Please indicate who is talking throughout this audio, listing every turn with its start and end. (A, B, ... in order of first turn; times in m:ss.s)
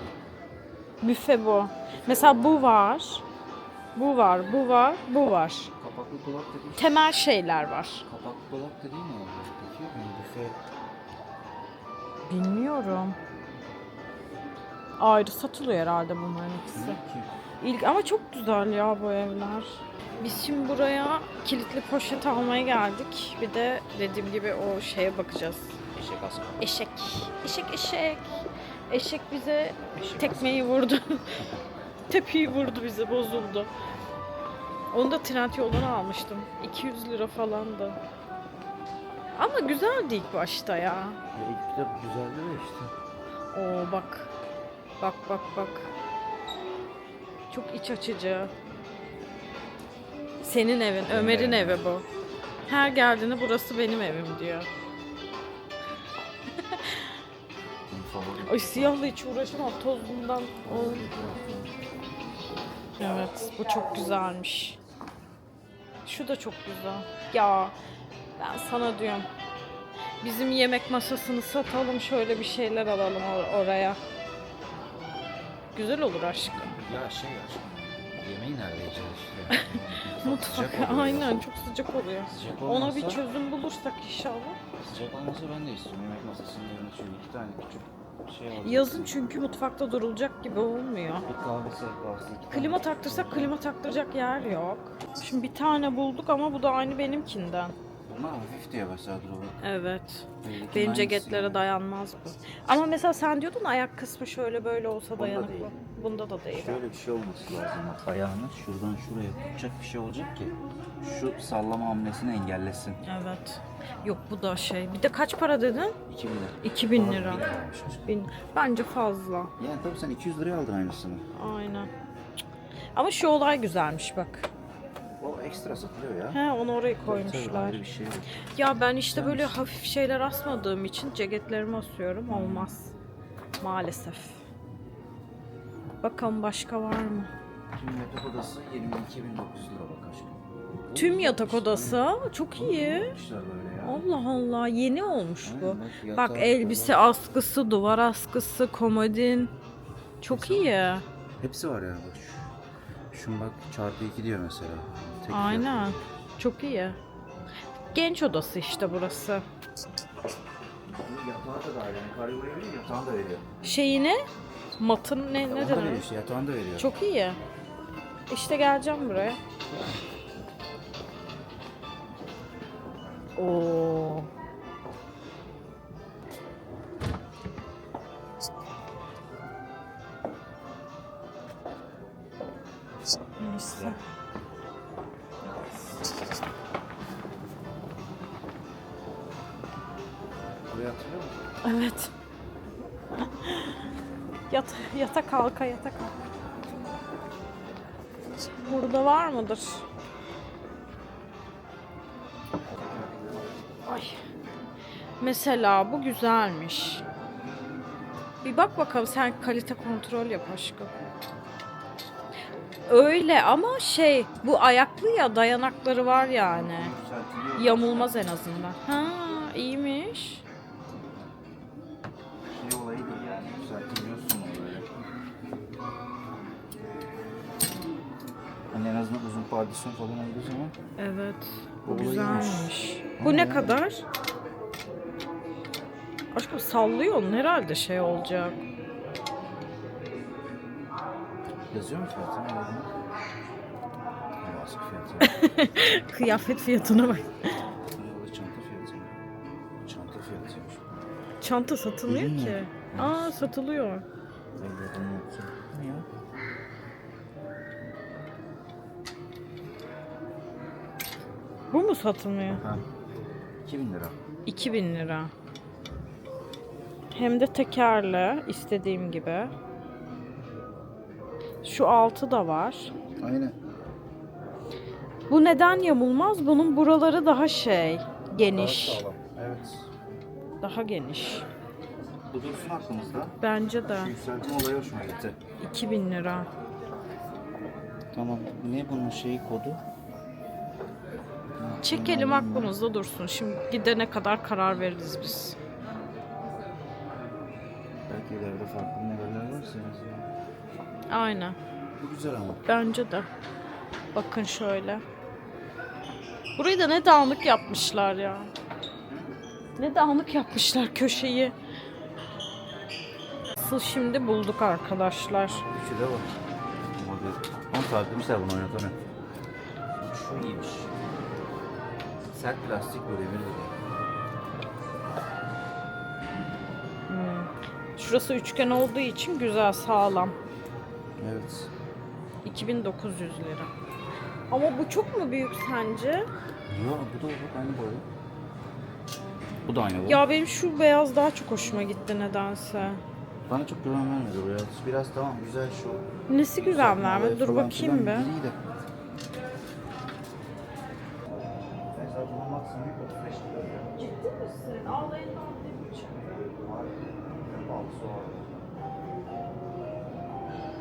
0:01.0-0:03.2 A
0:01.9-0:02.7 B
0:03.9-0:05.7 A
0:05.8-0:07.0 B
0:06.8-0:08.0 A
0:08.0-0:10.6 B
0:12.3-0:13.2 A
0:15.0-0:17.0 A
0:16.7-0:17.3 B
0:17.6-0:25.8 A
0:25.9-0:26.6 B
0:26.6-0:31.5 A
0:29.9-0:30.6 B
0:32.1-0:33.7 A
0:34.9-0:38.0 A
0:39.3-0:41.2 A
0:41.3-0:42.9 B
0:43.5-0:44.3 A
0:45.0-0:45.9 A
0:47.5-0:48.5 A
0:50.4-0:52.0 A
0:51.1-0:51.8 B
0:52.7-0:54.7 A
0:56.7-0:57.0 A
0:57.9-0:59.1 B
0:58.4-1:01.1 A
1:00.6-1:01.7 B
1:03.0-1:04.8 A
1:06.0-1:07.7 A
1:08.4-1:09.3 A
1:10.2-1:14.0 A
1:15.7-1:16.8 A
1:16.5-1:21.5 B
1:19.5-1:24.6 A
1:22.3-1:23.2 B
1:24.8-1:29.2 B
1:28.6-1:31.3 A
1:31.2-1:33.5 B
1:32.5-1:37.7 A
1:38.0-1:39.6 B
1:39.6-1:46.8 A
1:40.4-1:41.7 B
1:45.1-1:45.7 B
1:46.5-1:53.0 B
1:53.0-1:56.0 A
1:56.0-1:58.1 B
1:56.6-1:57.5 A
1:58.1-1:59.5 A
1:59.6-2:01.2 B
2:01.3-2:01.9 A
2:02.9-2:04.5 A
2:05.2-2:06.4 B
2:06.3-2:07.8 A
2:07.0-2:08.3 B
2:08.5-2:12.9 A
2:09.1-2:09.7 B
2:12.3-2:12.7 B
2:13.6-2:14.4 A
2:16.0-2:17.3 A
2:17.7-2:22.0 B
2:20.9-2:23.2 A
2:22.5-2:24.0 B
2:23.8-2:29.5 A
2:25.4-2:27.0 B
2:30.2-2:31.0 A
2:30.3-2:30.7 B
2:31.4-2:32.5 B
2:33.1-2:35.9 B
2:35.3-2:37.0 A
2:37.9-2:39.4 A
2:40.8-2:43.4 B
2:43.6-2:44.2 A
2:44.8-2:46.0 A
2:45.3-2:46.9 B
2:46.8-2:47.4 A
2:48.3-2:49.4 A
2:49.7-2:50.0 B
2:53.4-2:54.3 A
3:03.4-3:04.0 A
3:03.7-3:04.0 B
3:10.7-3:11.4 B
3:11.6-3:12.1 A
3:13.3-3:13.8 A
3:14.5-3:16.2 A
3:18.6-3:19.8 A
3:22.6-3:23.6 B
3:23.9-3:24.2 A
3:25.2-3:27.0 A
3:28.4-3:30.9 A
3:32.9-3:36.9 A
3:36.5-3:38.1 B
3:37.6-3:40.4 A
3:42.5-3:44.9 B
3:48.7-3:50.8 B
3:51.0-3:54.0 A
3:51.8-3:53.8 B
3:56.3-3:58.6 A
4:01.7-4:02.9 B
4:04.4-4:05.4 B
4:05.2-4:07.5 A
4:07.9-4:09.1 B
4:09.8-4:10.9 B
4:11.4-4:14.0 A
4:12.1-4:13.3 B
4:14.6-4:16.1 B
4:21.7-4:22.6 A
4:22.4-4:22.8 B
4:23.6-4:24.2 B
4:24.4-4:25.3 A
4:27.1-4:29.5 A
4:31.6-4:32.9 A
4:33.2-4:33.6 B
4:35.3-4:39.0 A
4:38.4-4:39.9 B
4:40.6-4:41.4 A
4:42.3-4:43.3 B
4:43.4-4:44.1 A
4:43.8-4:45.4 B
4:45.6-4:46.5 A
4:48.1-4:49.8 B
4:51.6-4:52.7 B
4:51.8-4:55.6 A
4:58.1-5:00.3 B
5:01.1-5:01.6 A
5:02.0-5:02.6 B
5:02.7-5:03.3 A
5:04.1-5:05.0 A
5:06.6-5:08.5 A
5:09.1-5:09.4 B
5:09.8-5:11.5 A
5:13.6-5:15.6 A
5:15.4-5:16.3 B
5:17.0-5:19.0 B
5:20.0-5:20.9 B
5:22.3-5:23.7 B
5:27.1-5:30.4 A
5:31.2-5:31.7 B
5:32.4-5:33.7 A
5:34.5-5:36.3 A
5:36.7-5:38.0 B
5:39.6-5:40.2 B
5:40.0-5:43.0 A
5:43.5-5:46.0 B
5:46.3-5:48.3 A
5:46.6-5:48.6 B
5:51.3-5:53.9 B
5:54.0-5:56.5 A
5:56.4-5:58.6 B